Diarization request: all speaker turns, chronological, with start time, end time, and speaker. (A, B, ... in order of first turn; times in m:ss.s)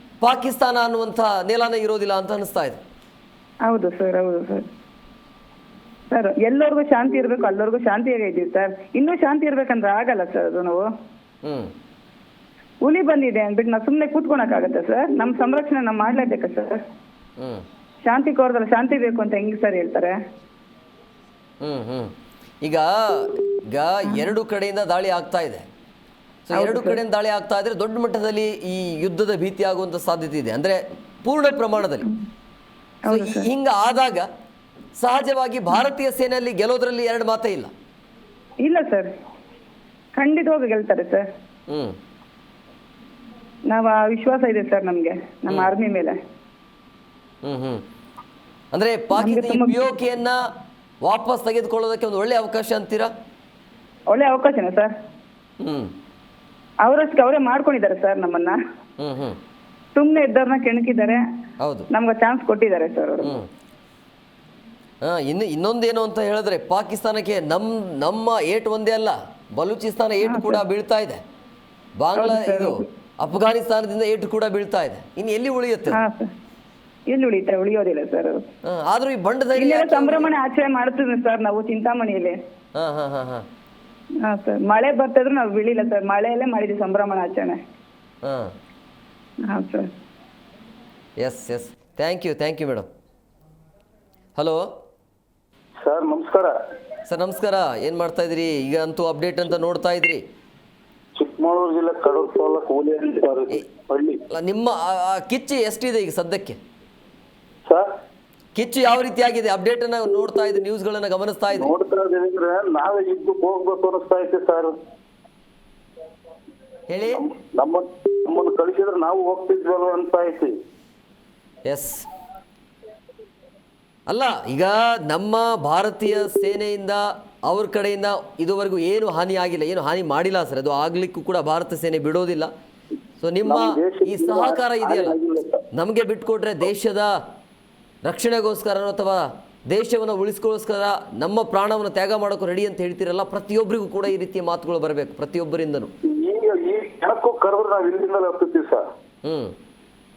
0:00.2-0:02.8 A
0:03.6-0:04.6 B
0:06.1-0:10.8 B
0:11.4-0:11.7 A
0:12.8-0:16.8 B
0:18.0-0:20.1 B
0:21.6-0:22.1 A
0:22.6-0:25.6 A
0:26.4-0:32.0 A
0:26.5-0:27.0 B
0:33.0-0:33.5 B
0:33.1-0:34.3 A
0:35.0-0:37.7 A
0:38.6-0:39.1 B
0:40.2-0:41.3 B
0:41.7-0:41.9 A
0:43.7-0:46.2 B
0:47.4-0:47.8 A
0:48.7-0:50.4 A
0:49.1-0:49.8 B
0:51.0-0:53.1 A
0:54.1-0:54.9 B
0:55.6-0:55.9 A
0:56.8-0:58.6 B
0:59.0-0:59.4 A
0:59.9-1:01.2 B
1:01.6-1:01.9 A
1:01.9-1:03.4 B
1:05.0-1:11.2 A
1:10.2-1:10.6 B
1:12.0-1:16.0 A
1:12.1-1:12.8 B
1:15.9-1:16.3 B
1:17.1-1:18.4 B
1:18.6-1:20.3 A
1:19.5-1:22.4 B
1:22.8-1:23.4 A
1:24.2-1:27.6 B
1:28.2-1:28.5 A
1:29.5-1:29.9 B
1:31.2-1:32.9 A
1:34.4-1:34.7 A
1:35.8-1:36.5 C
1:37.1-1:40.2 A
1:41.2-1:44.2 C
1:44.4-1:46.6 A
1:48.6-1:51.7 A
1:51.5-1:54.7 C
1:56.9-1:57.3 A
1:57.1-2:00.5 C
2:01.6-2:02.0 A
2:04.1-2:12.5 A
2:13.2-2:15.2 A
2:13.4-2:15.6 C
2:15.8-2:17.1 A
2:18.0-2:25.9 A
2:26.1-2:28.8 C
2:29.2-2:29.5 A